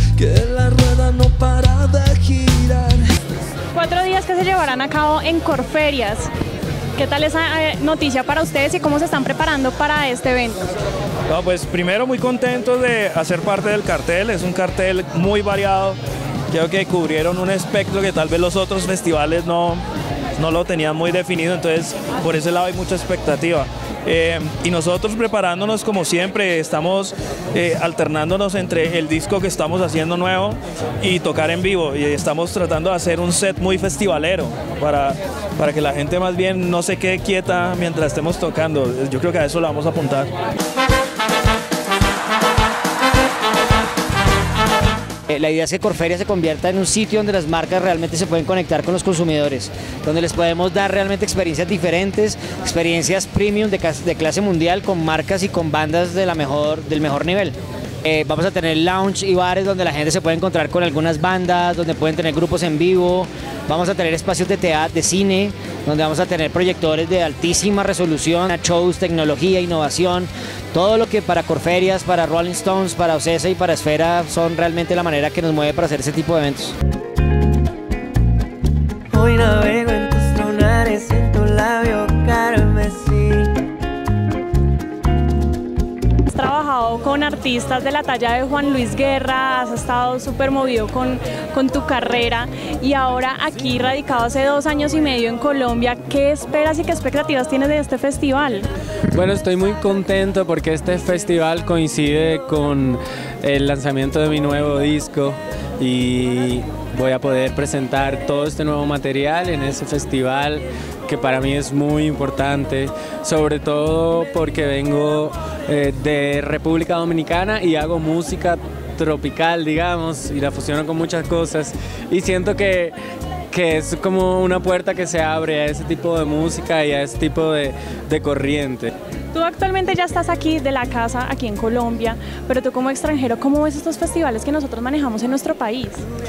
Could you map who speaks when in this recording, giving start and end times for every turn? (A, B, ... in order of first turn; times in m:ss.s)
0:00.2-0:03.0 A
0:03.7-0:06.3 B
0:07.0-0:10.6 B
0:11.3-0:16.0 A
0:16.5-0:19.8 A
0:20.4-0:40.3 A
0:45.3-1:16.7 C
1:19.1-1:23.5 D
1:26.3-1:38.7 B
1:39.1-2:02.9 E
2:03.5-2:08.9 E
2:09.3-2:16.0 B